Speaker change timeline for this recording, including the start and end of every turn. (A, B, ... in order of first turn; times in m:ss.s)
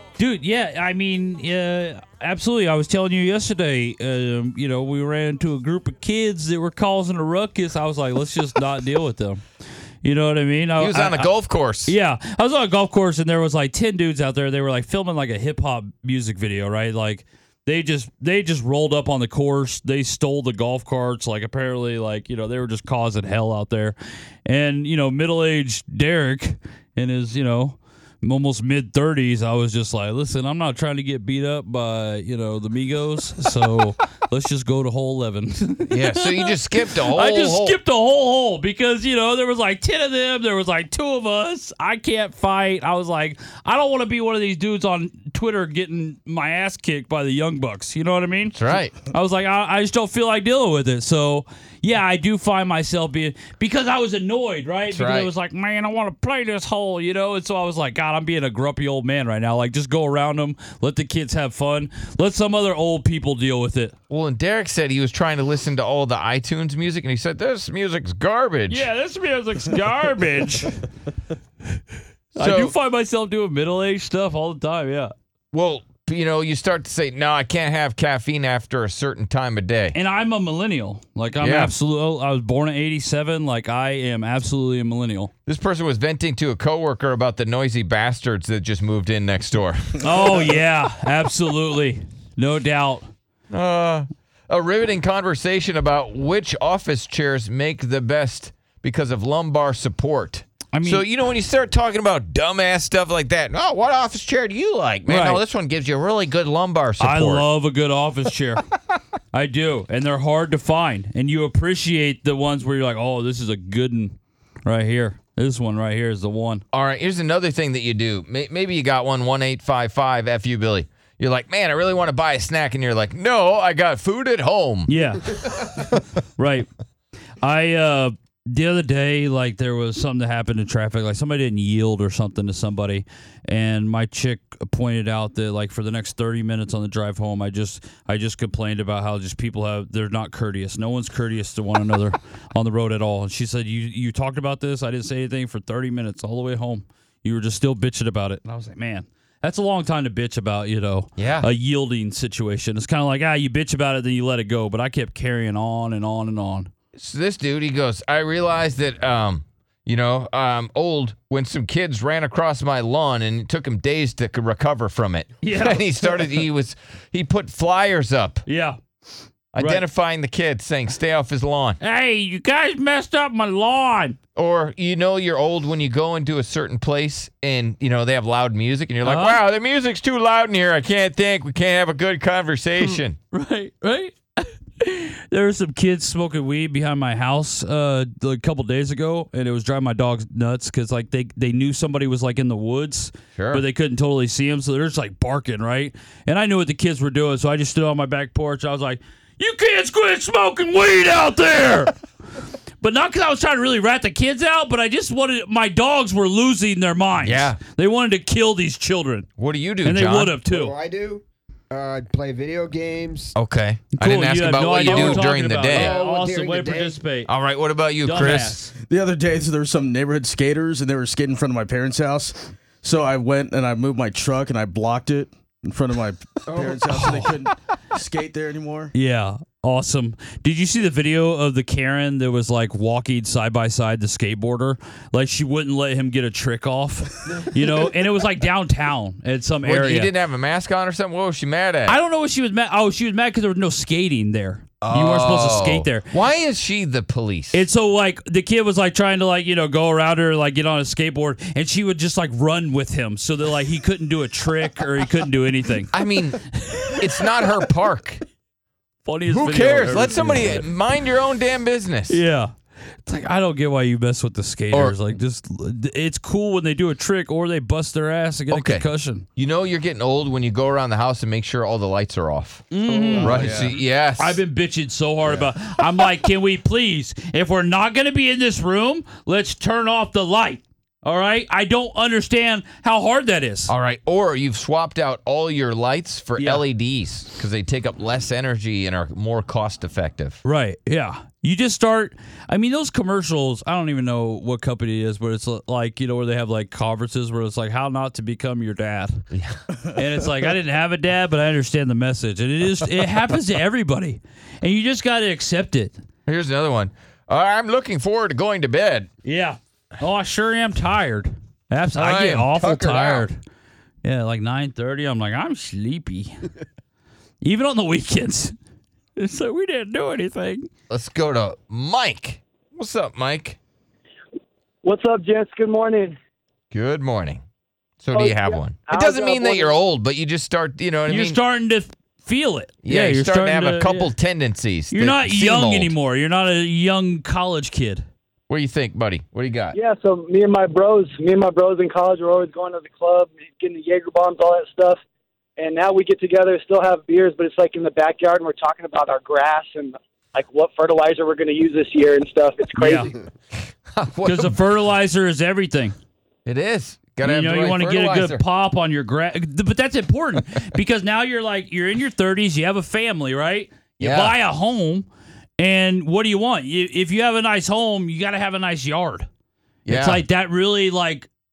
0:00.2-0:09.4 A
0:10.0-0:11.3 A
0:10.8-0:11.9 B
0:11.9-1:03.9 A
0:35.9-0:37.8 B
0:48.5-0:48.9 B
0:54.9-0:55.3 B
1:04.1-1:08.8 B
1:08.7-1:10.9 A
1:12.4-1:12.7 B
1:12.4-1:15.1 A
1:15.5-1:19.9 B
1:19.9-1:25.3 A
1:21.4-1:21.7 B
1:25.4-1:30.0 B
1:30.0-1:33.1 A
1:33.5-1:47.4 B
1:40.7-1:41.0 A
1:45.1-1:45.4 A
1:47.0-1:48.6 A
1:49.3-1:56.6 A
1:56.7-2:04.9 B
2:04.9-2:05.4 A
2:06.4-2:06.7 A
2:07.4-2:36.7 A
2:31.2-2:31.5 B
2:36.9-2:48.4 B
2:45.4-2:46.3 A
2:48.5-2:48.8 A
2:49.5-2:51.8 B
2:49.6-2:49.8 A
2:51.8-2:54.2 A
2:54.4-3:03.2 B
2:59.0-2:59.4 A
3:02.8-3:21.9 A
3:13.4-3:13.6 B
3:22.8-3:29.3 A
3:27.2-3:27.6 B
3:29.4-3:30.3 B
3:29.8-3:30.7 A
3:30.4-3:33.3 C
3:33.3-3:36.0 B
3:33.9-3:37.3 A
3:34.8-3:37.0 C
3:37.2-3:38.6 B
3:38.0-3:38.7 A
3:38.8-3:48.9 D
3:46.5-3:47.0 C
3:46.9-3:47.4 A
3:48.9-4:00.1 A
3:59.6-4:02.0 B
4:01.8-4:06.1 A
4:04.8-4:07.6 B
4:07.5-4:17.1 A
4:15.9-4:16.4 B
4:16.9-4:18.2 B
4:19.0-4:20.7 A
4:19.3-4:22.2 B
4:22.1-4:22.5 A
4:23.0-4:29.2 A
4:28.5-4:34.4 B
4:32.7-4:43.7 A
4:33.0-4:33.8 D
4:43.7-4:50.4 B
4:46.4-4:46.6 A
4:50.4-4:59.2 A
4:59.3-4:59.6 B
4:59.9-5:06.0 A
5:06.3-5:09.1 B
5:09.2-5:13.4 A
5:11.9-5:13.3 B
5:14.0-5:16.3 A
5:17.4-5:18.5 A
5:19.2-5:20.7 A
5:20.9-5:23.6 B
5:24.8-5:26.2 E
5:26.7-5:27.4 B
5:28.0-5:31.4 B
5:28.1-5:29.7 E
5:31.1-5:34.1 A
5:32.8-5:35.9 B
5:34.9-5:38.0 A
5:38.5-5:39.8 B
5:39.7-5:45.0 E
5:45.6-5:53.2 E
5:52.8-5:53.1 A
5:53.9-5:54.6 B
5:54.2-5:55.9 A
5:56.4-5:58.4 B
5:57.2-6:05.1 A
6:04.0-6:04.4 B
6:05.6-6:09.3 A
6:09.9-6:10.2 B
6:09.9-6:11.3 A